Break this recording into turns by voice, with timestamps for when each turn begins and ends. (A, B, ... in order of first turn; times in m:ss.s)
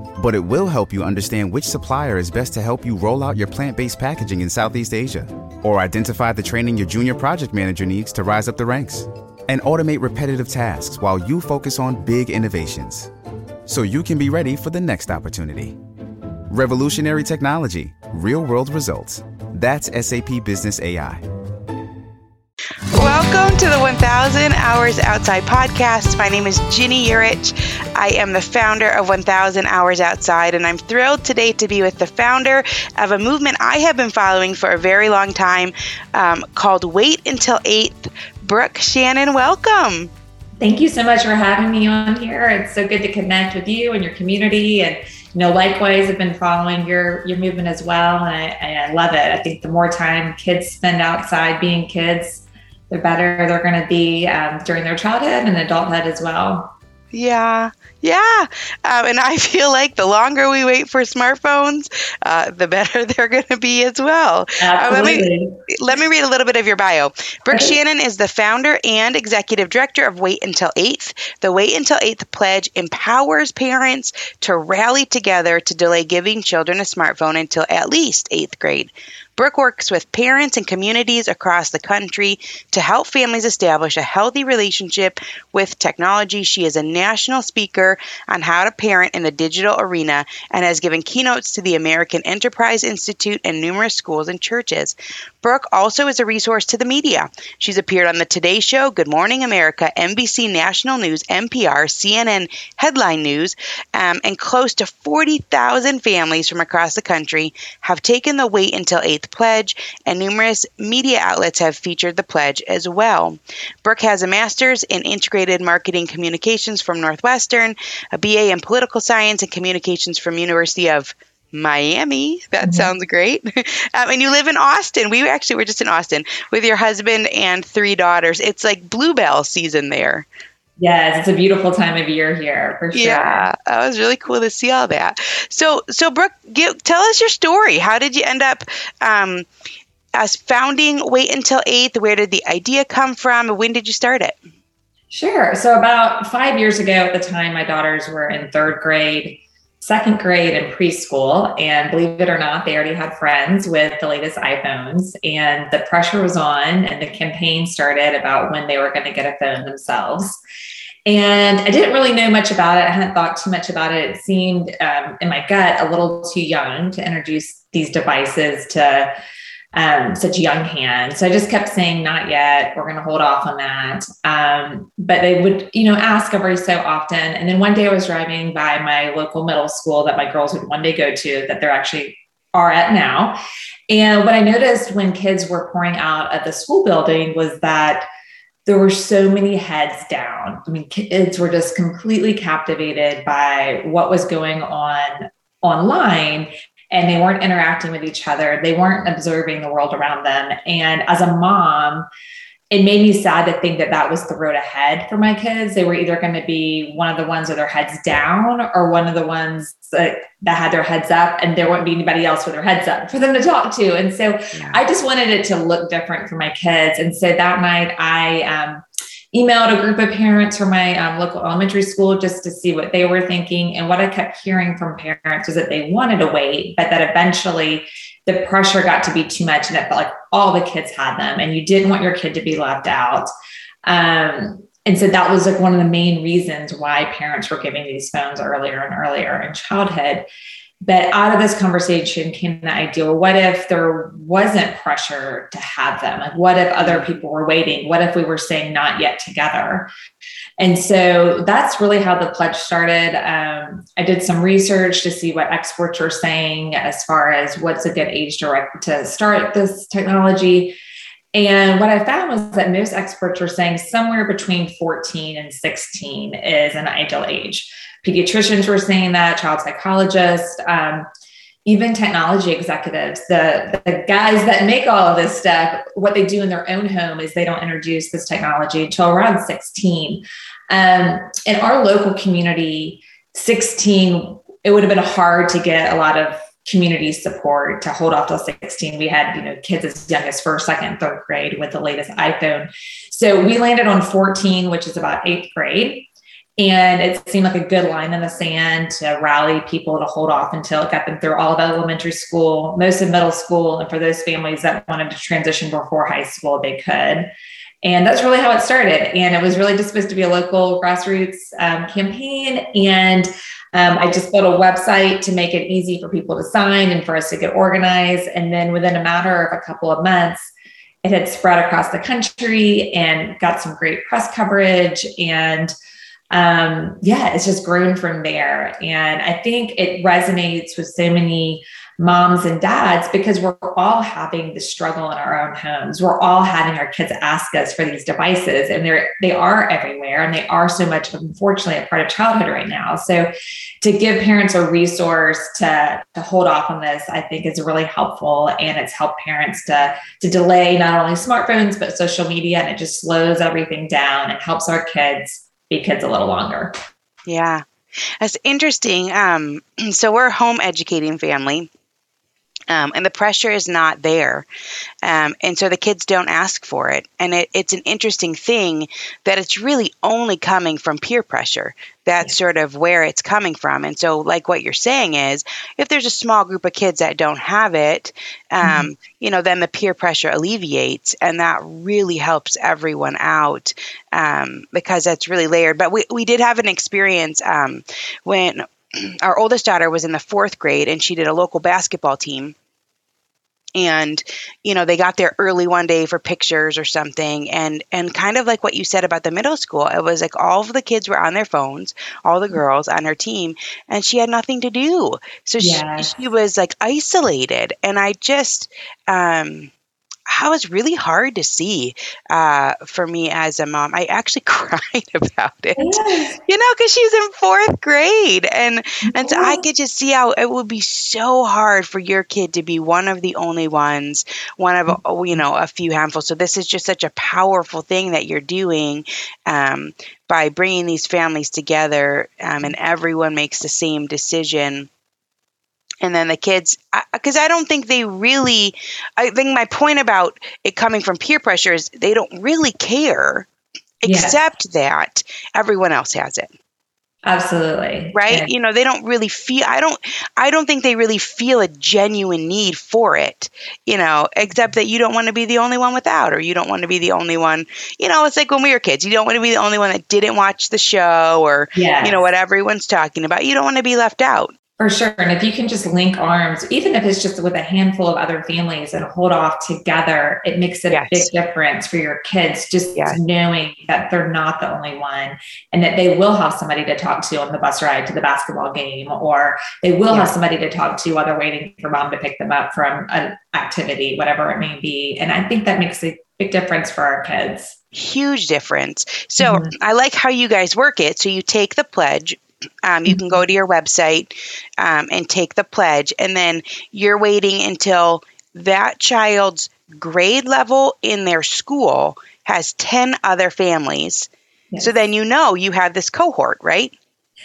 0:00.2-0:13.1 A
0:13.7-0:15.8 A
0:16.5-0:21.2 A
0:22.9-0:40.1 B
0:40.6-0:56.7 C
0:57.1-2:10.3 B
1:04.6-1:05.5 C
1:07.5-1:07.8 C
2:02.6-2:02.9 C
2:10.8-2:13.5 C
2:12.9-2:19.5 B
2:20.1-2:24.4 B
2:25.1-2:40.4 C
2:41.0-2:49.1 C
2:49.7-3:03.4 C
3:03.9-3:08.0 C
3:08.6-3:22.1 C
3:22.7-3:53.3 C
3:34.5-3:34.8 B
3:53.8-4:00.3 C
4:00.8-4:09.9 C
4:06.8-4:07.0 B
4:10.6-4:20.8 C
4:21.3-4:31.1 C
4:31.6-5:07.3 C
5:07.8-5:20.5 C
5:21.0-5:25.7 C
5:26.3-5:43.3 C
5:43.8-5:56.7 C
5:57.3-5:57.6 B
5:58.2-6:01.7 B
6:02.7-6:04.5 B
6:05.0-6:32.5 B
6:18.6-6:18.9 C
6:33.8-6:49.7 B
6:45.6-6:46.1 C
6:50.3-7:14.9 B
6:55.8-6:56.4 C
6:59.0-6:59.6 C
7:16.0-7:23.5 B
7:24.0-7:26.5 B
7:24.0-7:24.4 C
7:27.2-7:28.5 C
7:28.1-7:44.5 B
7:41.7-7:42.2 C
7:44.8-8:07.8 C
7:50.9-7:51.3 B
8:07.9-8:26.9 B
8:09.4-8:09.7 C
8:13.1-8:13.4 C